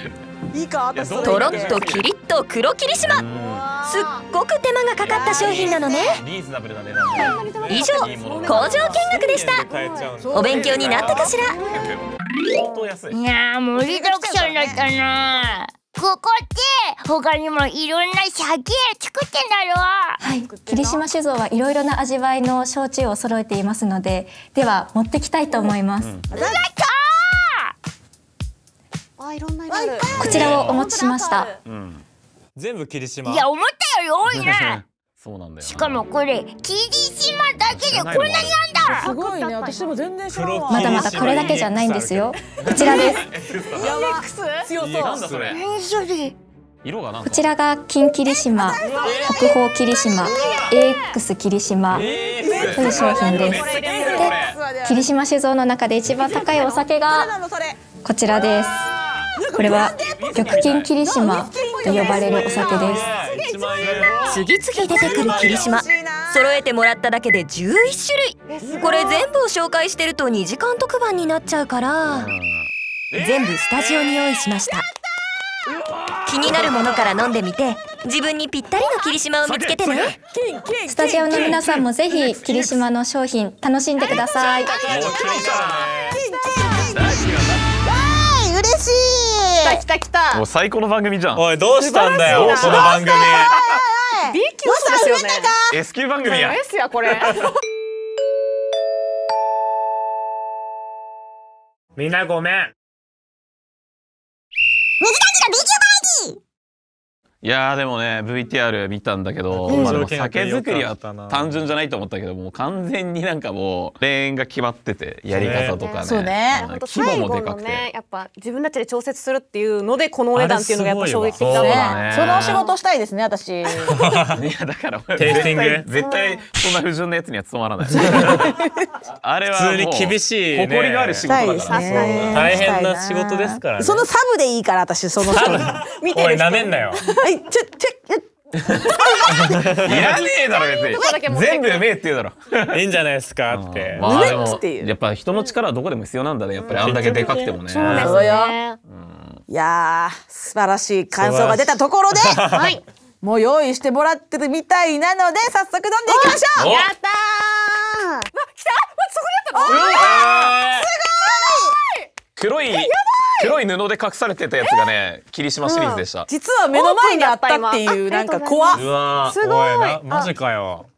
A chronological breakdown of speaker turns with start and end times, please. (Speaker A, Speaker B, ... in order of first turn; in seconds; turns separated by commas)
Speaker A: 0.5-1.9, Speaker B: 0.9-2.1, Speaker C: 1.2-3.2, Speaker B: 3.0-3.8, Speaker A: 3.4-4.2, Speaker C: 3.8-6.2, Speaker A: 5.0-6.2, Speaker B: 5.1-9.0, Speaker D: 7.1-10.3, Speaker E: 7.5-8.0, Speaker C: 7.7-9.7, Speaker E: 8.6-11.2, Speaker A: 10.2-11.3, Speaker C: 10.3-11.6, Speaker B: 10.4-13.2, Speaker F: 13.1-20.2, Speaker A: 13.7-14.8, Speaker G: 20.2-26.1, Speaker A: 20.3-21.0, Speaker B: 26.0-26.4, Speaker F: 26.3-27.7, Speaker A: 26.3-26.6, Speaker D: 29.2-31.6, Speaker A: 29.7-30.8, Speaker B: 30.1-30.7, Speaker G: 30.2-31.5, Speaker B: 31.6-32.0, Speaker E: 32.5-33.5, Speaker F: 33.2-34.8, Speaker B: 34.3-36.0, Speaker F: 35.6-39.1, Speaker B: 37.7-38.7, Speaker D: 38.9-40.0, Speaker A: 38.9-41.6, Speaker E: 40.3-43.2, Speaker G: 40.7-43.2, Speaker B: 42.6-44.0, Speaker A: 42.7-43.1, Speaker A: 43.7-45.2, Speaker D: 43.8-44.7, Speaker E: 44.8-45.6, Speaker B: 45.0-45.6, Speaker F: 45.5-46.3, Speaker B: 46.8-47.5, Speaker G: 47.2-52.1, Speaker A: 48.3-49.5, Speaker E: 48.8-49.5, Speaker B: 50.2-50.7, Speaker B: 51.9-54.6, Speaker E: 52.0-53.5, Speaker A: 52.4-55.1, Speaker G: 52.6-57.3, Speaker D: 53.5-54.4, Speaker D: 56.1-56.9, Speaker A: 57.0-57.8, Speaker G: 58.0-58.9, Speaker B: 58.9-60.9, Speaker A: 59.3-63.7, Speaker G: 59.6-63.1, Speaker E: 61.8-65.7, Speaker B: 63.7-65.8, Speaker C: 64.3-72.3, Speaker A: 65.4-66.6, Speaker D: 68.5-69.3, Speaker B: 72.0-74.5, Speaker C: 73.2-74.8, Speaker B: 75.8-77.3, Speaker C: 76.2-80.2, Speaker B: 79.4-80.2, Speaker A: 80.3-82.8, Speaker G: 80.9-84.8, Speaker D: 84.0-85.3, Speaker E: 84.5-86.2, Speaker B: 84.8-86.0, Speaker A: 86.1-87.3, Speaker B: 86.7-87.6, Speaker A: 87.8-89.8, Speaker D: 89.6-90.4, Speaker B: 90.3-91.5, Speaker E: 91.3-93.5, Speaker D: 91.7-93.2, Speaker B: 92.2-93.8, Speaker A: 92.5-95.7, Speaker D: 94.3-95.5, Speaker B: 95.7-97.5, Speaker D: 96.2-97.5, Speaker E: 102.0-102.7, Speaker A: 105.0-106.3, Speaker B: 107.4-117.9, Speaker E: 109.5-111.6, Speaker D: 109.7-110.1, Speaker E: 115.3-115.9, Speaker D: 115.6-122.7, Speaker A: 116.0-116.7, Speaker E: 120.3-122.0, Speaker B: 121.5-122.7, Speaker A: 121.5-124.0, Speaker E: 123.9-124.4, Speaker B: 124.2-128.6, Speaker E: 125.2-125.9, Speaker D: 126.0-126.5, Speaker E: 127.9-128.5, Speaker B: 129.1-132.7, Speaker E: 129.5-134.1, Speaker A: 131.3-135.8, Speaker D: 131.4-132.5, Speaker E: 135.2-137.0, Speaker D: 135.8-136.9, Speaker A: 137.1-138.2, Speaker B: 138.6-139.0, Speaker A: 138.8-140.1, Speaker E: 139.3-140.0, Speaker B: 139.7-142.9, Speaker D: 140.1-141.9, Speaker A: 140.9-141.2, Speaker E: 142.7-144.1, Speaker B: 143.5-148.1, Speaker A: 144.0-144.9, Speaker D: 146.6-148.8, Speaker E: 146.7-148.4, Speaker A: 147.9-148.5, Speaker B: 148.9-149.4, Speaker A: 149.5-152.4, Speaker E: 151.1-152.8, Speaker D: 152.5-152.8, Speaker A: 153.2-156.7, Speaker D: 156.1-160.1, Speaker B: 156.5-156.9, Speaker A: 159.5-161.8, Speaker B: 159.6-160.7, Speaker E: 159.9-160.9, Speaker D: 161.5-162.0, Speaker B: 162.3-166.3, Speaker D: 162.7-163.6, Speaker D: 165.6-166.1, Speaker A: 166.3-168.8, Speaker D: 166.7-170.3, Speaker B: 168.7-169.4, Speaker E: 169.3-170.9